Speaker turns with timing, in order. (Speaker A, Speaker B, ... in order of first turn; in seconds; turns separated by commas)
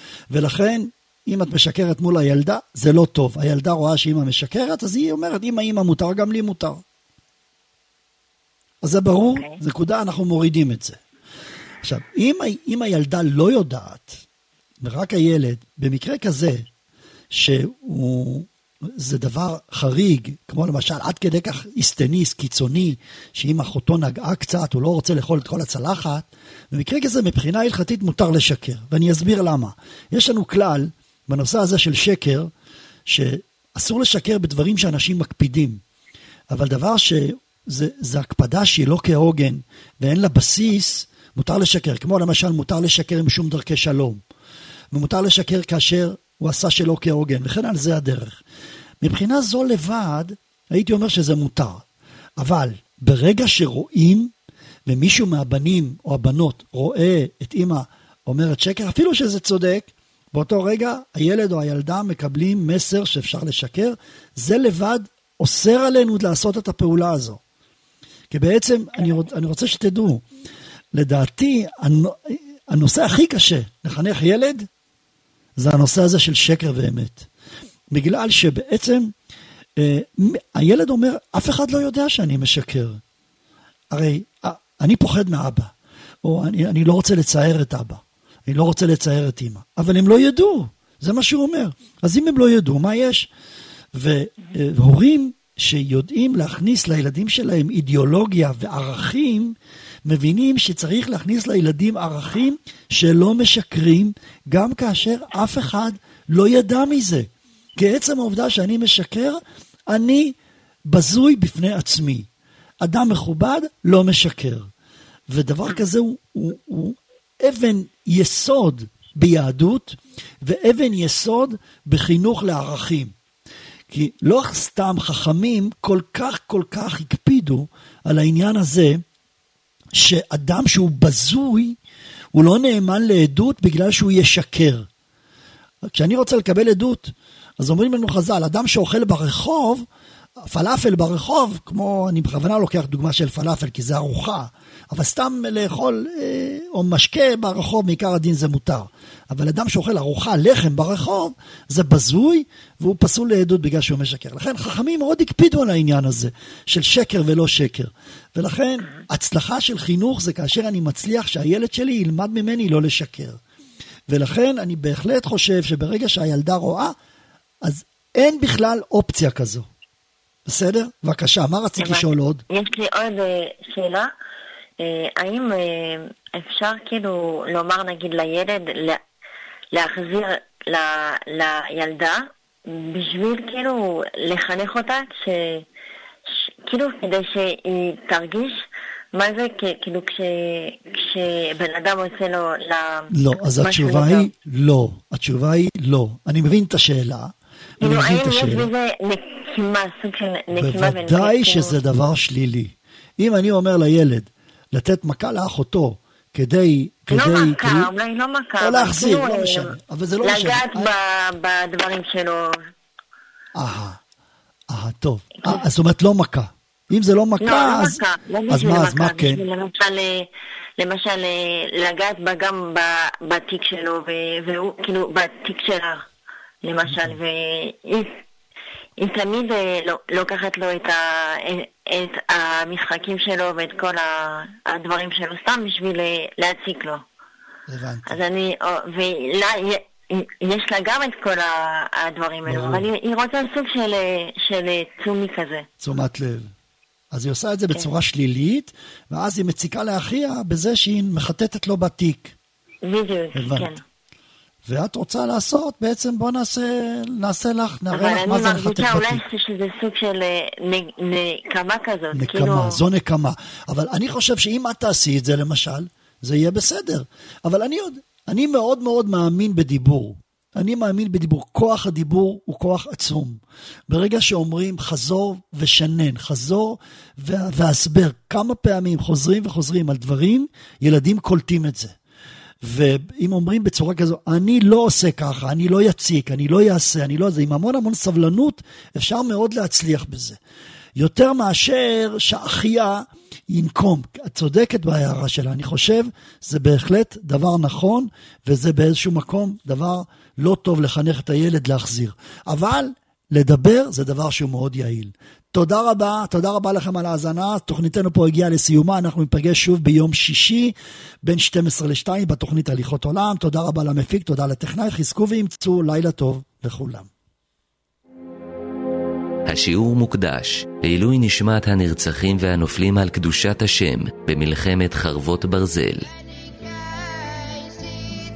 Speaker A: 0.3-6.8, Speaker A: 8.8-11.0, Speaker B: 9.2-9.6, Speaker A: 11.8-14.2, Speaker A: 14.8-16.7, Speaker A: 17.3-32.5, Speaker A: 33.1-35.8, Speaker A: 36.5-44.2, Speaker A: 44.9-48.4, Speaker A: 49.0-51.8, Speaker A: 52.4-54.3, Speaker A: 54.9-67.4, Speaker A: 68.3-70.2, Speaker A: 70.9-74.7, Speaker A: 75.6-77.3, Speaker A: 77.9-79.1, Speaker A: 79.8-83.0, Speaker A: 83.9-85.7, Speaker A: 86.2-93.3, Speaker A: 93.9-110.3, Speaker A: 110.9-112.3, Speaker A: 112.8-114.7, Speaker A: 115.3-123.1, Speaker A: 123.9-129.0, Speaker A: 129.9-131.8, Speaker A: 132.3-134.9, Speaker A: 135.9-139.8, Speaker A: 140.4-163.4, Speaker A: 164.1-166.9, Speaker A: 167.6-169.7, Speaker A: 170.5-172.4, Speaker B: 171.8-174.1, Speaker B: 174.8-179.0, Speaker B: 179.7-185.7, Speaker B: 186.7-188.6, Speaker B: 189.1-194.3, Speaker A: 193.1-198.7, Speaker B: 197.8-201.7, Speaker A: 200.5-207.9, Speaker B: 207.1-212.6, Speaker A: 208.6-210.9, Speaker A: 213.6-214.0, Speaker A: 214.7-219.4, Speaker B: 217.4-226.1, Speaker B: 226.6-228.2, Speaker A: 226.9-227.2, Speaker B: 229.0-237.0, Speaker A: 237.7-238.2, Speaker B: 238.1-245.7, Speaker A: 242.4-242.9, Speaker A: 245.8-246.5, Speaker A: 247.1-252.3, Speaker B: 252.8-253.8, Speaker A: 253.3-253.7, Speaker A: 254.7-259.2, Speaker B: 257.9-262.8, Speaker A: 262.1-281.9, Speaker A: 282.6-290.4, Speaker A: 291.0-317.1, Speaker C: 319.5-326.1